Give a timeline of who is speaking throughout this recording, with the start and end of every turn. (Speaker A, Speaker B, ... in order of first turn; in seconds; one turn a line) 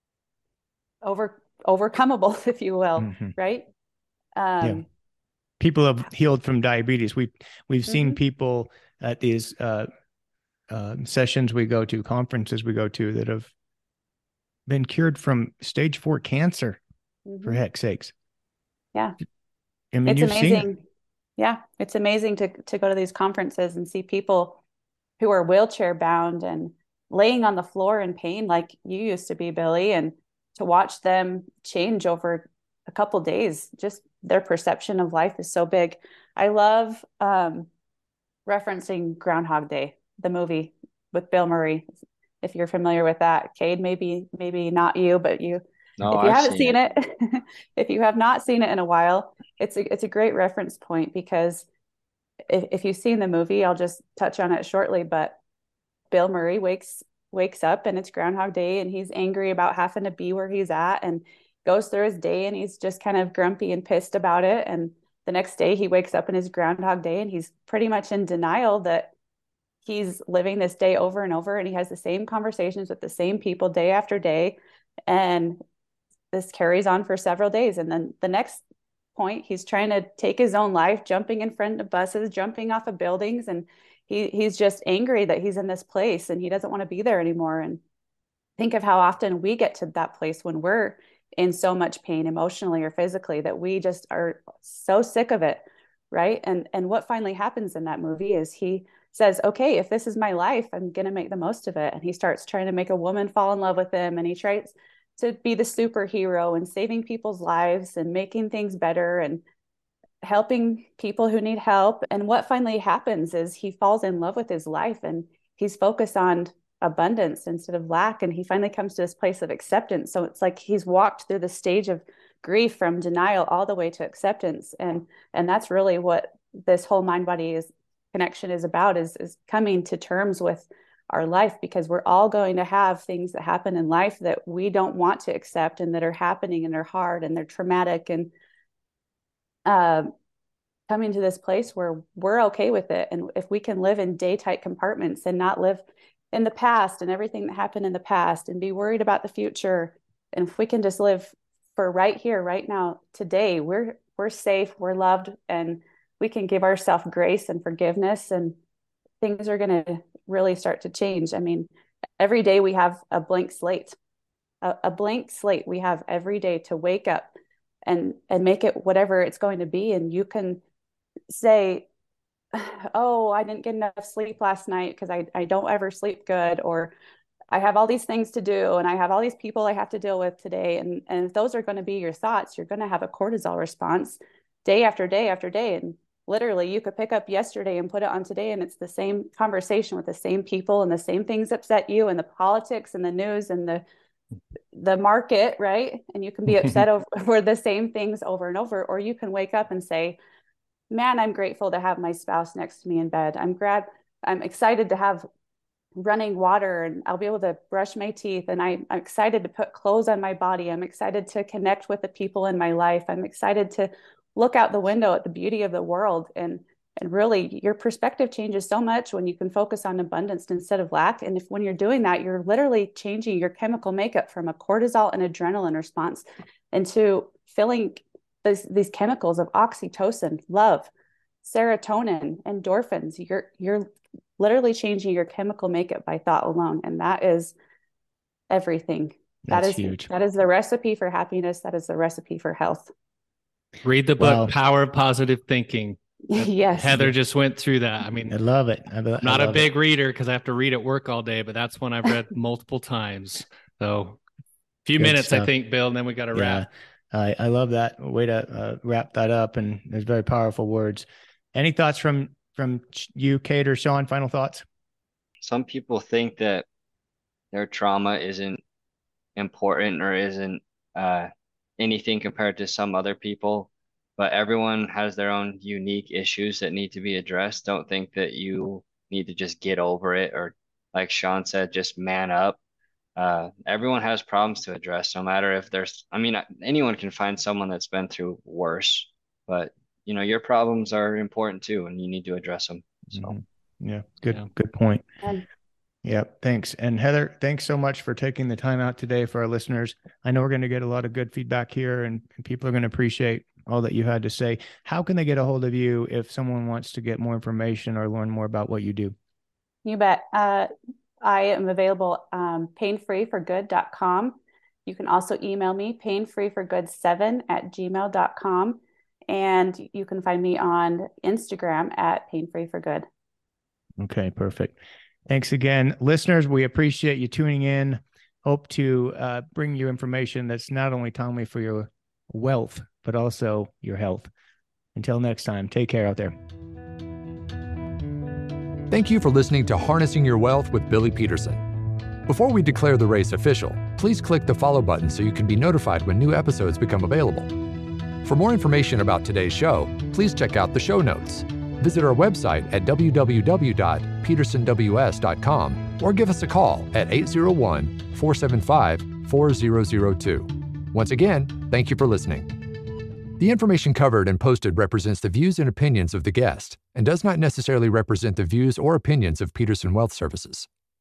Speaker A: 1.0-3.7
Speaker B: 3.0-3.4
Speaker A: 4.4-4.9
Speaker B: 5.6-9.9
Speaker A: 7.9-8.2
Speaker B: 10.7-13.5
Speaker B: 14.7-16.8
Speaker A: 17.3-17.6
Speaker B: 17.4-18.1
Speaker B: 19.9-20.7
Speaker A: 20.1-20.8
Speaker A: 21.4-24.6
Speaker A: 25.2-37.7
Speaker A: 38.5-41.8
Speaker A: 42.4-51.7
Speaker C: 46.0-46.8
Speaker A: 52.5-55.4
Speaker A: 56.1-69.1
Speaker A: 69.8-75.6
Speaker A: 76.3-78.6
Speaker A: 79.2-87.8
Speaker A: 88.6-109.4
Speaker A: 110.2-138.3
Speaker A: 139.7-140.1
Speaker A: 140.9-158.6
Speaker A: 159.2-163.9
Speaker A: 164.6-167.3
Speaker A: 167.9-170.6
Speaker A: 171.3-171.9
Speaker A: 172.5-176.9
Speaker A: 177.5-193.8
Speaker A: 194.7-200.2
Speaker A: 200.9-205.3
Speaker A: 206.0-230.9
Speaker A: 231.4-233.9
Speaker A: 234.4-237.5
Speaker A: 238.5-242.9
Speaker B: 239.5-240.1
Speaker D: 243.8-246.0
Speaker B: 244.2-244.5
Speaker A: 246.3-247.0
Speaker D: 246.8-248.3
Speaker B: 246.9-247.1
Speaker B: 248.3-249.7
Speaker D: 249.2-254.2
Speaker D: 254.8-256.7
Speaker B: 255.0-255.5
Speaker B: 256.3-264.6
Speaker C: 265.4-266.6
Speaker C: 267.5-268.6
Speaker C: 269.4-282.6
Speaker C: 283.2-293.3
Speaker B: 293.1-295.1
Speaker B: 296.0-309.1
Speaker A: 309.9-310.7
Speaker A: 311.2-323.1
Speaker B: 324.0-334.3
Speaker B: 334.9-336.4
Speaker E: 338.9-341.6
Speaker E: 342.3-347.5
Speaker E: 348.2-362.5
Speaker E: 363.4-370.7